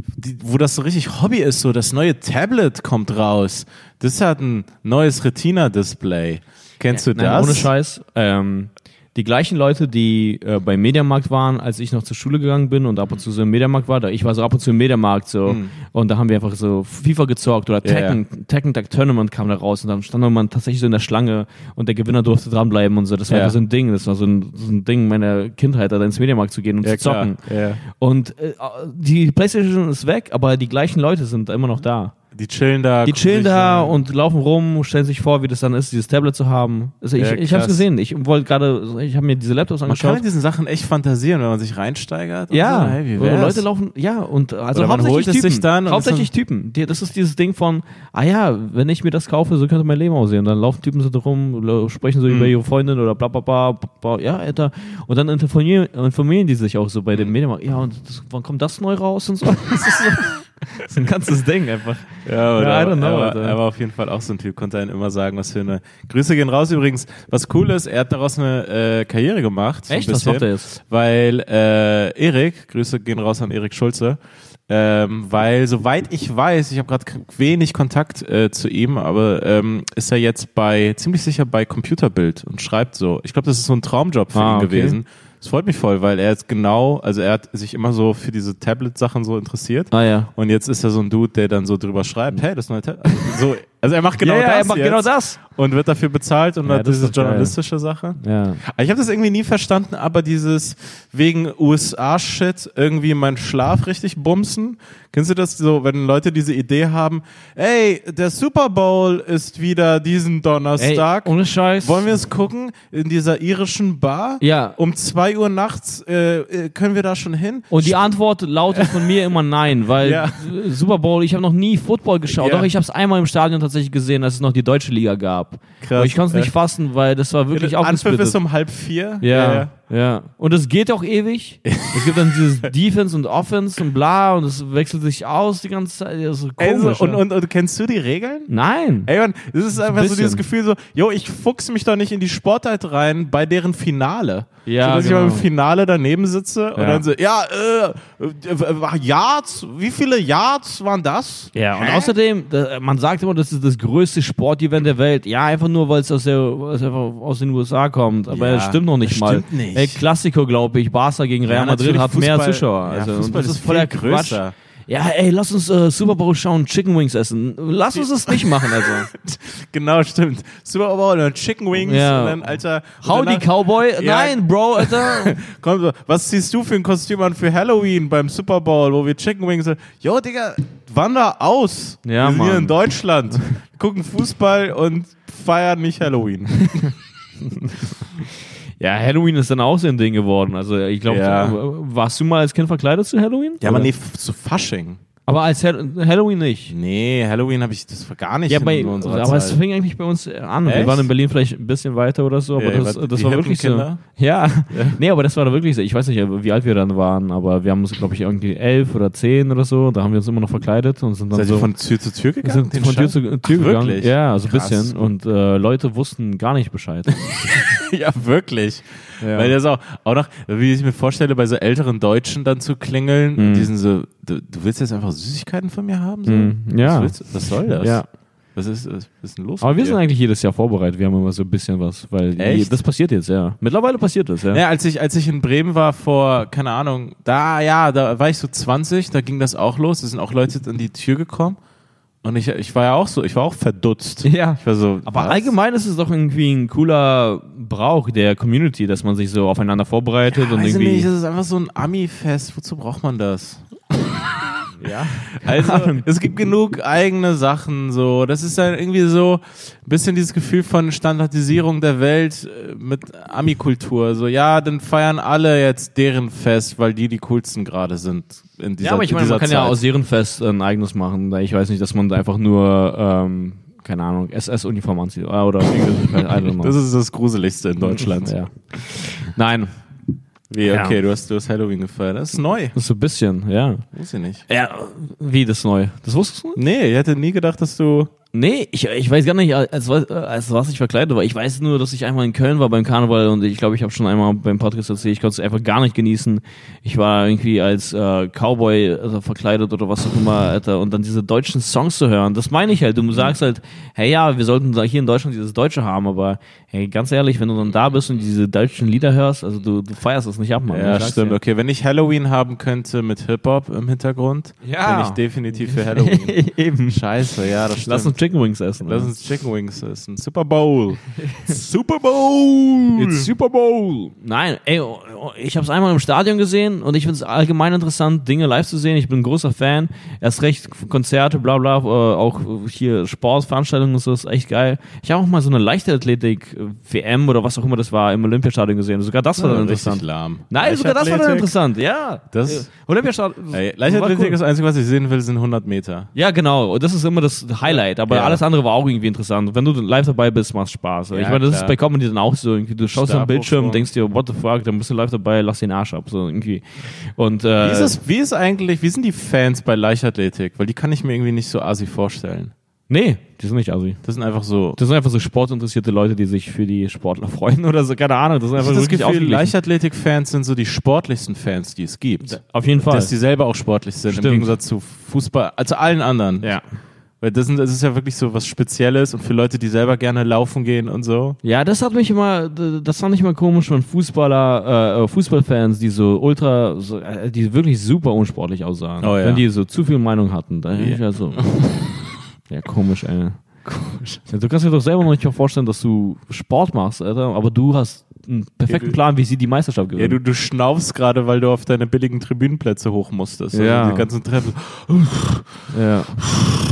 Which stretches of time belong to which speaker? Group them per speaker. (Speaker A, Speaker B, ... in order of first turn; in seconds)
Speaker A: 0.2-7.7, 15.4-15.7, 17.8-18.2, 23.3-23.5, 26.8-27.8, 32.3-34.0, 37.2-37.8, 39.9-43.6, 44.7-46.3, 62.2-118.0, 118.7-119.2, 120.0-120.5, 122.3-122.7, 125.8-126.5, 127.5-129.7, 131.7-132.7, 136.6-138.5, 139.1-152.1, 158.3-160.0, 161.4-164.5, 167.9-186.9, 191.1-191.6, 193.6-195.0, 196.7-199.6, 200.6-201.1, 202.6-204.0, 204.7-205.0, 211.3-215.0, 217.5-228.0, 228.5-230.0, 232.4-232.7, 234.5-241.6, 242.2-245.5, 250.3-254.7, 255.3-269.8, 275.7-278.3, 280.5-282.7, 283.9-284.4, 286.6-288.1, 310.7-318.1, 318.9-323.3, 339.4-341.5, 342.3-342.7, 343.5-346.1, 347.7-348.4, 351.1-351.7, 352.9-353.9, 357.6-362.5, 364.0-364.8, 368.6-376.6, 377.2-381.4, 389.0-389.4, 390.8-391.9, 393.6-394.2, 398.7-399.0, 399.9-405.5
Speaker B: 6.9-32.1, 33.0-40.2, 42.5-63.6, 69.9-70.7, 84.3-85.0, 89.9-90.3, 94.2-95.4, 96.7-97.5, 98.2-98.6, 110.8-112.2, 114.4-114.8, 117.7-128.4, 129.2-137.2, 138.5-139.1, 139.9-140.4, 144.7-145.5, 146.8-147.0, 151.5-169.1, 171.8-172.4, 173.0-175.4, 182.0-182.8, 188.8-193.9, 195.2-196.7, 198.5-211.7, 212.4-217.7, 219.2-219.5, 223.4-223.7, 226.3-227.2, 227.7-228.1, 229.6-234.6, 244.2-251.1, 254.7-256.0, 268.8-276.7, 277.8-279.7, 280.6-281.0, 282.7-283.8, 284.5-286.6, 288.3-311.4, 314.6-317.0, 317.8-319.1, 321.2-321.6, 322.9-344.4, 346.1-357.9, 362.9-364.0, 364.8-369.5, 372.3-373.1, 374.1-374.5, 381.4-391.5, 392.5-393.4, 394.3-400.2, 403.5-404.1, 405.7-406.2